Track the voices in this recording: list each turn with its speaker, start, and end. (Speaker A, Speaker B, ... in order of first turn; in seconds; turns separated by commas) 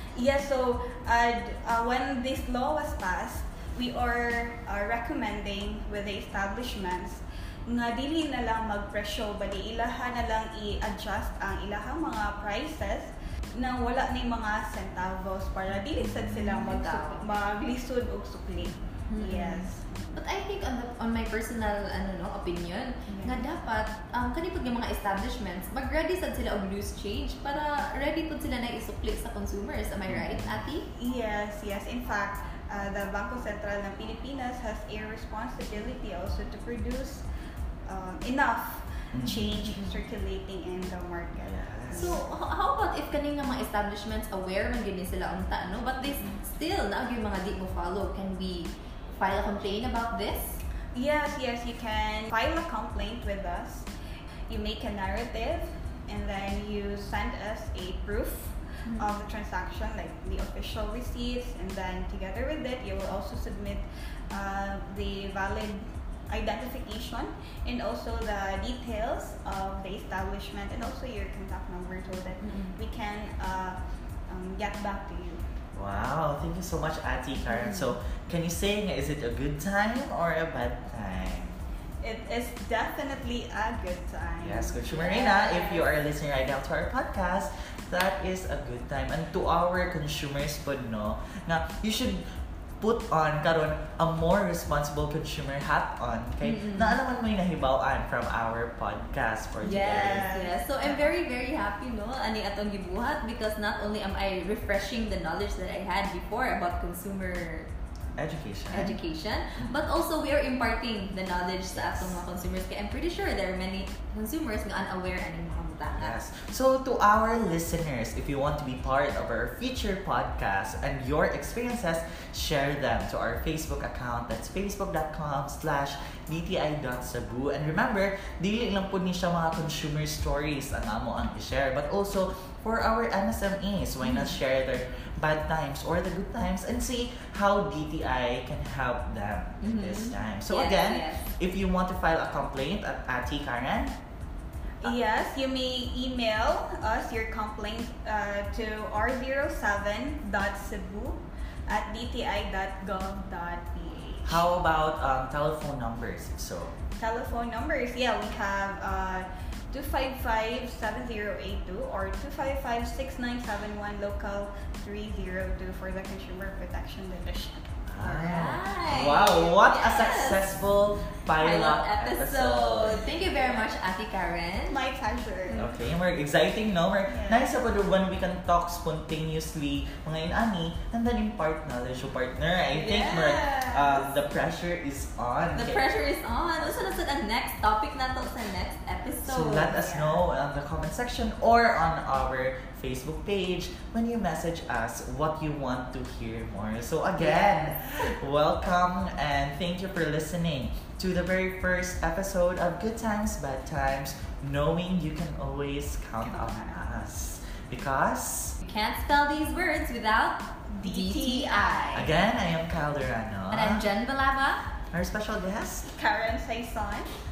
Speaker A: 0.1-20.1, Speaker B: 15.7-16.8, Speaker C: 16.6-17.2, Speaker C: 19.1-30.9, Speaker A: 23.1-23.5, Speaker B: 30.1-30.6, Speaker A: 30.9-37.2, Speaker A: 37.9-42.2, Speaker B: 39.1-39.8, Speaker B: 41.4-42.2, Speaker C: 41.9-50.6, Speaker A: 50.9-53.9, Speaker A: 54.5-75.4, Speaker C: 72.4-72.8, Speaker B: 75.8-81.5, Speaker C: 77.5-77.9, Speaker A: 82.0-85.9, Speaker B: 84.4-92.2, Speaker B: 92.8-100.3, Speaker C: 96.4-97.0, Speaker C: 99.6-107.7, Speaker A: 99.7-101.1, Speaker B: 108.2-109.0, Speaker C: 108.7-116.1, Speaker B: 111.7-112.2, Speaker B: 116.0-143.9, Speaker C: 134.0-134.3, Speaker C: 139.6-141.3, Speaker A: 144.8-154.4, Speaker B: 154.2-156.7, Speaker A: 157.0-167.6, Speaker B: 167.9-173.2, Speaker C: 168.0-170.5, Speaker C: 171.4-174.8, Speaker A: 174.7-175.7, Speaker C: 175.5-175.8, Speaker B: 175.6-186.0, Speaker A: 177.1-177.5, Speaker C: 182.7-183.5, Speaker A: 183.2-183.9, Speaker C: 185.5-189.8, Speaker B: 186.6-187.0, Speaker B: 189.2-208.6, Speaker A: 189.6-190.2, Speaker A: 197.2-197.6, Speaker A: 206.2-206.9, Speaker C: 208.6-212.0, Speaker A: 210.7-212.1, Speaker B: 211.9-213.8, Speaker C: 213.5-214.7, Speaker B: 214.9-215.9, Speaker A: 215.9-217.1